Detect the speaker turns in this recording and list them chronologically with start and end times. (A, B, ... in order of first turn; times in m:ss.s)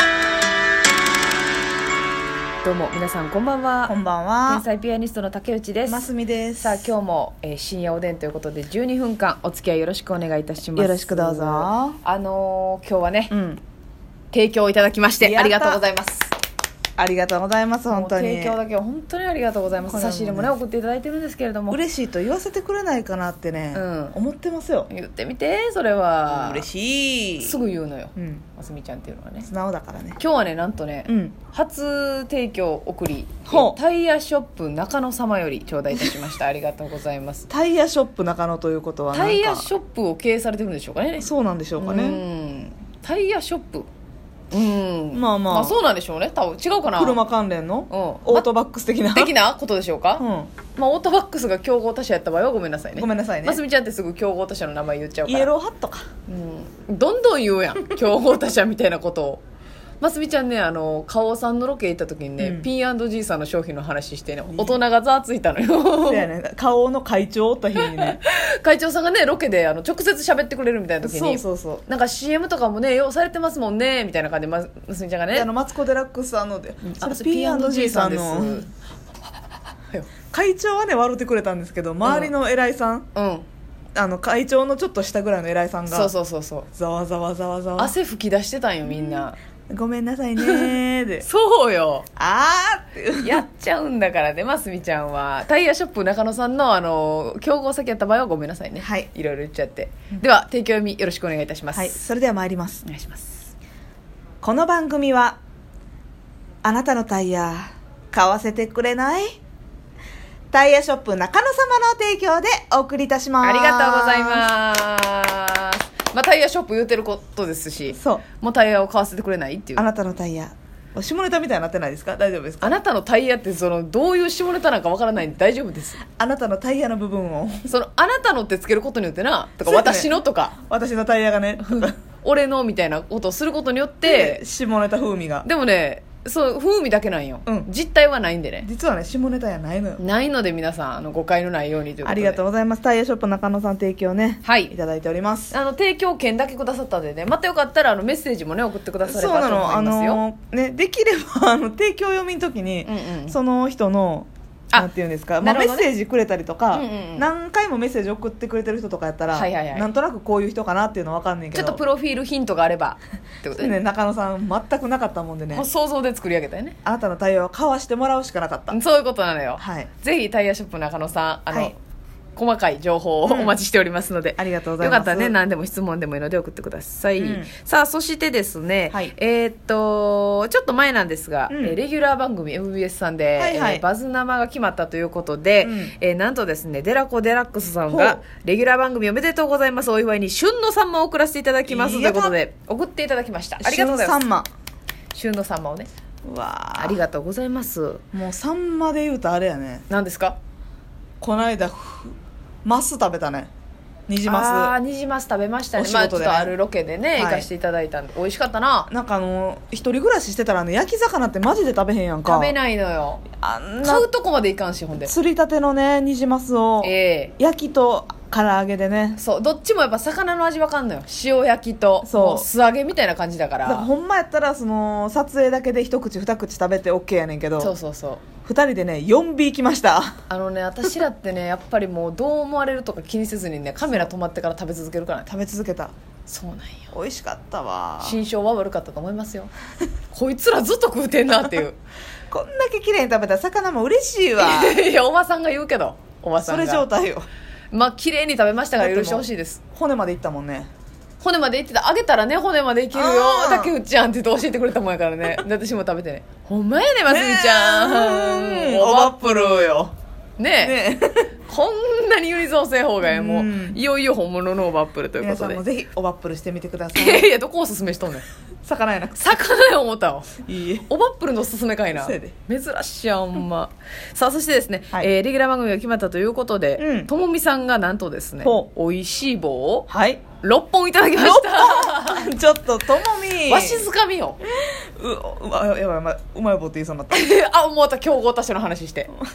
0:02.6-0:03.9 A
0:03.8-0:04.6 B
0:04.5-0:06.1 A
0:05.8-0:06.9 B
0:06.6-0:13.3 A
0:10.7-0:12.0 B
0:13.3-0:13.6 B
0:14.3-0:16.3 A
0:15.2-0:15.8 B
0:17.0-0:18.6 B
0:17.9-0:21.8 A
0:19.9-0:20.5 B
0:21.7-0:24.9 B
0:23.7-0:24.2 A
0:24.9-0:26.6 A
0:26.3-0:27.6 B
0:27.4-0:29.5 A
0:28.2-0:28.4 B
0:29.4-0:30.2 B
0:30.2-0:37.5 A
0:31.1-0:31.4 B
0:33.5-0:33.8 B
0:37.5-0:39.7 B
0:39.1-0:43.9 A
0:41.2-0:42.2 B
0:44.5-0:47.2 A
0:45.1-0:45.8 B
0:46.9-0:49.3 B
0:47.9-0:48.5 A
0:49.1-0:55.5 A
0:50.2-0:50.5 B
0:53.0-0:53.6 B
0:55.2-0:56.1 B
0:56.3-0:59.4 A
1:00.0-1:06.3 A
1:02.4-1:02.7 B
1:06.0-1:08.2 B
1:07.8-1:15.5 A
1:11.0-1:11.8 B
1:15.3-1:18.6 B
1:17.0-1:18.7 A
1:20.3-1:23.1 B
1:22.0-1:22.3 A
1:23.1-1:23.4 A
1:23.9-1:26.1 B
1:25.9-1:26.6 A
1:26.7-1:27.9 B
1:27.8-1:29.4 A
1:28.9-1:31.2 B
1:30.4-1:32.0 A
1:32.2-1:33.4 B
1:33.2-1:42.0 A
1:38.8-1:39.1 B
1:41.7-1:42.8 B
1:42.8-1:43.5 A
1:44.4-1:45.4 B
1:46.6-1:49.4 B
1:50.5-1:54.5 B
1:53.4-1:59.8 A
1:57.9-1:58.2 B
1:59.8-2:02.8 B
2:02.6-2:06.0 A
2:06.2-2:07.7 B
2:07.7-2:10.5 A
2:09.6-2:11.9 B
2:11.6-2:14.4 A
2:14.0-2:15.4 B
2:15.4-2:18.6 A
2:18.6-2:20.0 B
2:20.0-2:22.4 A
2:22.0-2:25.5 B
2:24.4-2:24.7 A
2:25.5-2:30.2 A
2:29.0-2:41.8 B
2:32.8-2:33.4 A
2:35.4-2:35.9 A
2:36.7-2:37.3 A
2:39.3-2:39.9 A
2:41.5-2:43.7 A
2:43.6-2:45.6 B
2:45.5-2:46.8 A
2:46.8-2:48.8 B
2:48.7-2:51.8 A
2:49.6-2:49.9 B
2:52.4-3:14.2 A
2:53.2-2:53.6 B
2:54.4-2:55.3 B
2:57.2-2:57.5 B
3:01.5-3:01.8 B
3:03.4-3:03.8 B
3:05.6-3:05.9 B
3:07.9-3:08.2 B
3:11.6-3:12.4 B
3:13.6-3:14.5 B
3:15.1-3:15.9 A
3:16.2-3:17.0 B
3:16.8-3:18.0 A
3:18.1-3:19.8 B
3:19.9-3:20.4 A
3:21.2-3:22.1 B
3:22.6-3:23.5 B
3:24.1-3:24.7 B
3:24.2-3:28.9 A
3:25.7-3:26.5 B
3:27.2-3:27.5 B
3:28.9-3:32.5 B
3:32.2-3:33.2 A
3:33.4-3:34.1 B
3:33.8-3:35.1 A
3:35.0-3:39.2 B
3:36.8-3:37.3 A
3:39.2-3:43.9 A
3:42.0-3:42.5 B
3:43.6-3:47.7 B
3:47.6-3:48.2 A
3:48.4-3:50.2 B
3:50.3-3:55.3 A
3:55.3-3:55.9 B
3:56.3-3:56.9 A
3:56.9-3:58.2 B
3:58.0-3:59.5 A
4:00.1-4:01.8 A
4:02.3-4:04.8 B
4:04.4-4:06.8 A
4:06.4-4:07.3 B
4:07.7-4:09.6 A
4:08.8-4:10.7 B
4:11.2-4:19.8 A
4:12.9-4:13.8 B
4:17.1-4:19.9 B
4:20.4-4:20.7 A
4:20.6-4:21.3 B
4:21.5-4:25.6 A
4:23.0-4:23.8 B
4:25.2-4:27.3 B
4:26.9-4:28.2 A
4:28.6-4:29.3 B
4:29.2-4:39.9 A
4:30.4-4:30.9 B
4:31.9-4:32.3 B
4:36.8-4:37.1 B
4:38.4-4:38.7 B
4:39.9-4:40.2 B
4:40.4-4:42.3 A
4:41.1-4:43.9 B
4:43.5-4:44.4 A
4:44.4-4:47.3 B
4:47.1-4:49.1 A